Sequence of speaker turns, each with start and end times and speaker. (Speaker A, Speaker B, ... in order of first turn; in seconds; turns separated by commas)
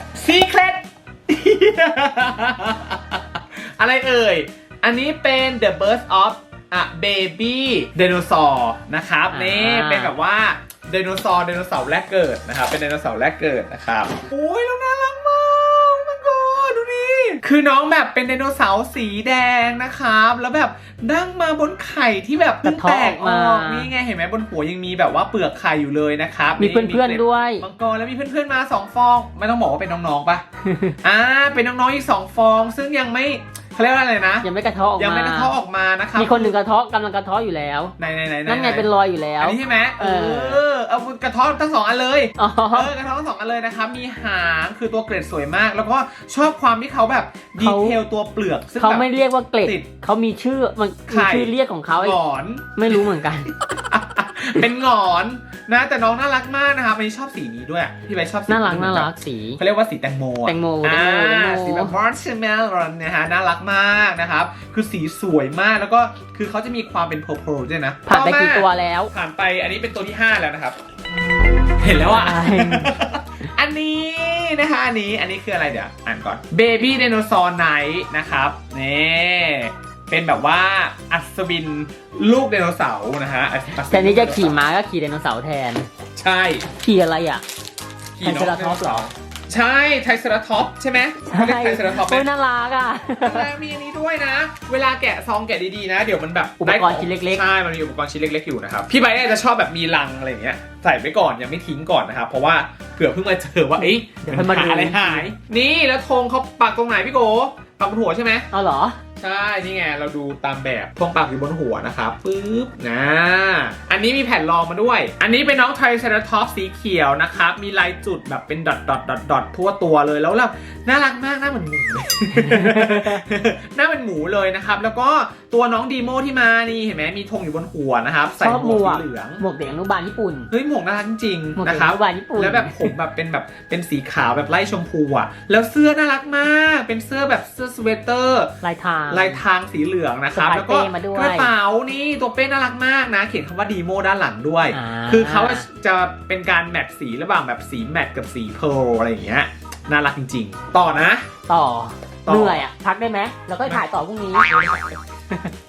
Speaker A: 0.1-30.4, Speaker B: 9.3-10.1, Speaker B: 22.6-23.9, Speaker B: 26.6-27.6, Speaker B: 30.6-31.0, Speaker A: 31.0-34.5, Speaker B: 34.4-35.5, Speaker A: 35.0-36.5, Speaker B: 36.1-37.9, Speaker A: 38.0-38.9, Speaker B: 38.5-40.6, Speaker A: 39.4-49.1, Speaker B: 42.4-42.9, Speaker B: 47.6-48.0, Speaker B: 48.8-52.2, Speaker A: 51.1-53.0, Speaker B: 52.8-53.5, Speaker A: 53.8-70.8, Speaker B: 58.5-59.6, Speaker B: 60.5-62.0, Speaker B: 68.1-69.1, Speaker A: 71.8-84.5, Speaker B: 72.0-72.9, Speaker B: 83.9-85.9, Speaker A: 86.2-86.7, Speaker B: 86.8-87.4, Speaker A: 88.2-92.2, Speaker B: 88.2-89.1, Speaker B: 91.2-93.5, Speaker A: 93.2-108.5, Speaker B: 96.6-97.4, Speaker B: 103.8-105.3, Speaker B: 108.5-109.0, Speaker A: 109.2-129.4, Speaker B: 122.4-123.2, Speaker B: 128.4-130.5, Speaker A: 130.5-138.5, Speaker B: 131.6-132.9, Speaker B: 138.6-139.4, Speaker A: 139.1-151.3, Speaker B: 140.3-141.5, Speaker B: 144.7-145.7, Speaker B: 151.5-155.5, Speaker A: 152.2-152.6, Speaker A: 154.5-154.8